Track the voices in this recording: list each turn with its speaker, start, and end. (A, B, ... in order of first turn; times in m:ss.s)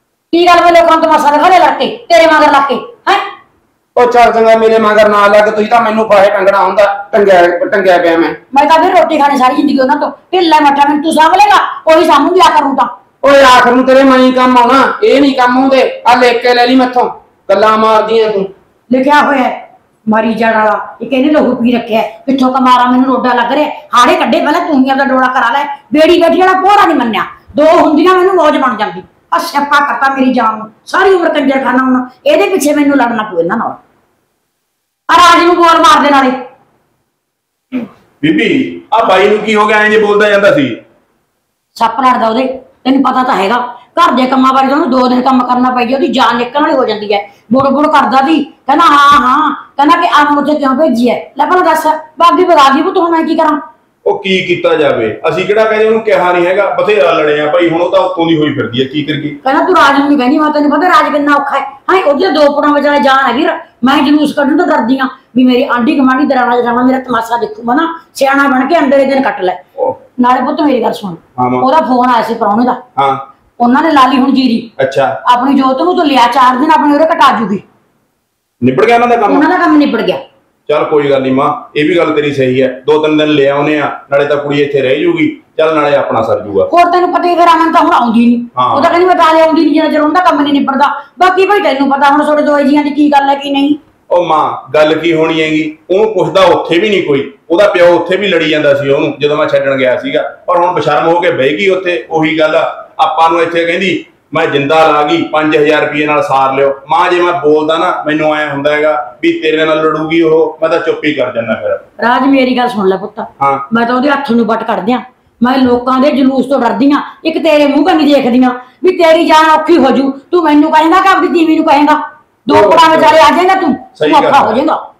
0:00.3-0:03.2 A
0:03.9-0:08.4 B
0:08.5-0:12.9 A
0:13.2-0:18.5 B
0:18.9-0:19.6 A
0:20.1-0:33.8 A
0:35.1-0:36.4 A
0:38.2-0:40.8 C
0:41.8-0:53.6 A
0:54.0-0:59.4 C
0:59.4-1:09.6 A
1:10.2-1:12.8 A
1:11.4-1:11.6 C
1:13.0-1:13.2 C
1:13.6-1:14.7 A
1:14.8-1:15.2 C
1:15.2-1:17.6 A
1:18.6-1:19.5 C
1:19.3-1:20.2 A
1:20.7-1:26.7 C
1:26.7-1:33.8 A
1:28.6-1:29.0 C
1:34.1-1:51.8 C
1:52.0-2:04.8 A
2:02.5-2:03.2 C
2:04.0-2:04.6 C